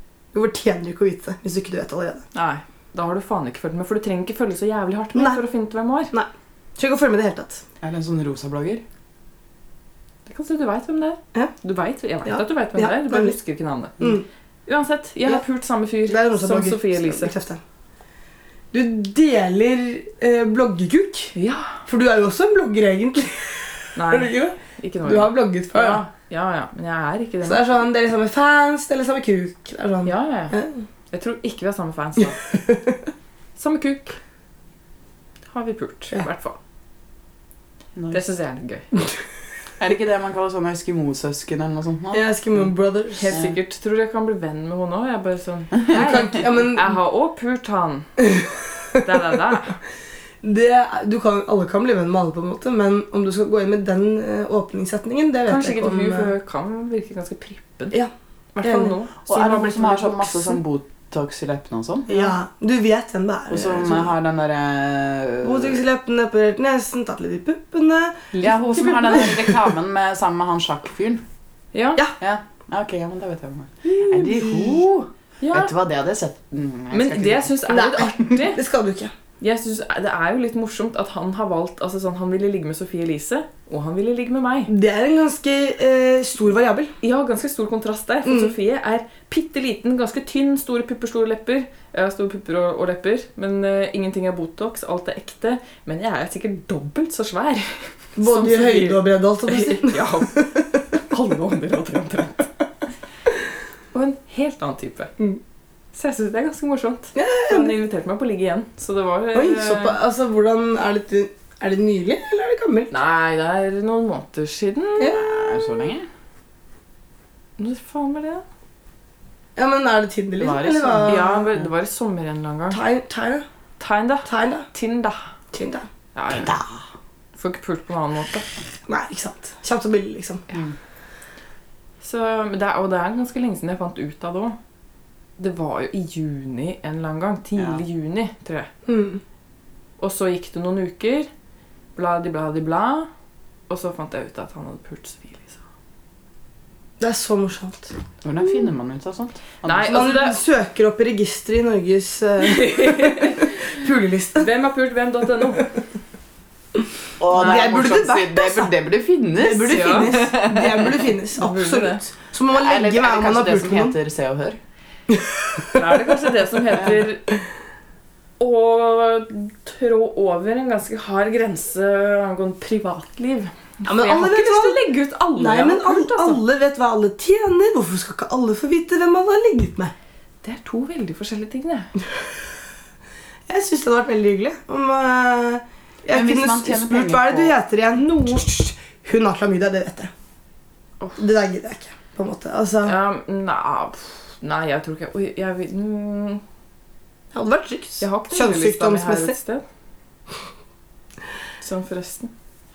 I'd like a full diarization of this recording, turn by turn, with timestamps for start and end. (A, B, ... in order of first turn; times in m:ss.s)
0:00.3-0:02.2 A
0:02.3-0:06.1 B
0:05.1-0:05.4 A
0:06.1-0:07.6 A
0:07.8-0:08.8 C
0:10.3-0:14.2 B
0:12.2-0:13.4 A
0:14.7-0:17.3 B
0:16.1-0:17.6 A
0:18.7-0:21.4 A
0:21.4-0:21.8 B
0:21.9-0:26.0 A
0:24.0-0:27.6 B
0:27.4-0:30.8 A
0:30.0-0:30.6 B
0:31.1-0:32.4 B
0:32.2-0:33.1 A
0:33.6-0:34.2 B
0:35.5-0:36.6 B
0:38.0-0:38.2 C
0:38.1-0:38.9 B
0:39.8-0:42.7 C
0:42.1-0:43.4 A
0:43.2-0:48.1 B
0:45.9-0:46.9 A
0:48.2-0:49.0 A
0:49.0-0:49.8 B
0:50.4-0:56.3 A
0:55.5-0:58.0 B
0:58.6-1:00.6 B
0:58.6-0:58.9 A
0:59.3-1:02.1 C
1:02.1-1:04.1 A
1:03.5-1:05.8 C
1:05.4-1:08.3 A
1:08.3-1:09.3 B
1:08.4-1:11.2 C
1:09.0-1:09.5 A
1:11.7-1:12.0 B
1:12.2-1:17.5 C
1:13.9-1:14.6 B
1:14.2-1:14.8 A
1:15.4-1:15.7 B
1:16.9-1:18.6 B
1:17.7-1:19.1 A
1:19.4-1:24.7 B
1:24.7-1:26.9 A
1:27.0-1:40.4 B
1:28.2-1:28.6 A
1:38.2-1:40.8 A
1:40.9-1:42.5 B
1:43.9-1:45.1 B
1:45.9-1:50.0 B
1:47.2-1:47.7 A
1:49.3-1:52.9 A
1:52.9-1:55.5 B
1:55.1-1:56.1 C
1:57.6-1:58.4 B
1:59.6-2:01.5 A
2:00.4-2:01.7 C
2:01.1-2:02.8 B
2:02.7-2:03.5 A
2:03.8-2:05.3 B
2:04.2-2:04.7 A
2:05.5-2:05.9 A
2:06.2-2:06.6 B
2:06.4-2:06.8 C
2:07.4-2:08.5 B
2:08.9-2:10.4 A
2:12.0-2:14.6 B
2:15.4-2:18.7 B
2:18.9-2:19.2 A
2:20.0-2:21.3 B
2:22.0-2:23.1 B
2:23.7-2:25.6 B
2:27.0-2:27.9 A
2:28.2-2:30.0 C
2:29.6-2:30.4 B
2:29.9-2:34.5 A
2:32.4-2:33.7 B
2:34.4-2:35.8 B
2:37.2-2:41.1 C
2:37.3-2:38.7 A
2:39.4-2:44.0 A
2:39.7-2:40.1 B
2:41.4-2:42.0 B
2:42.5-2:44.6 C
2:45.1-2:45.8 A
2:45.7-2:47.4 B
2:48.4-2:56.4 B
2:53.8-2:59.9 A
3:00.4-3:01.9 B
3:03.5-3:10.1 A
3:06.1-3:07.5 C
3:11.2-3:13.0 A
3:12.8-3:16.4 B
3:17.3-3:19.4 A
3:18.0-3:19.6 B
3:21.6-3:22.3 B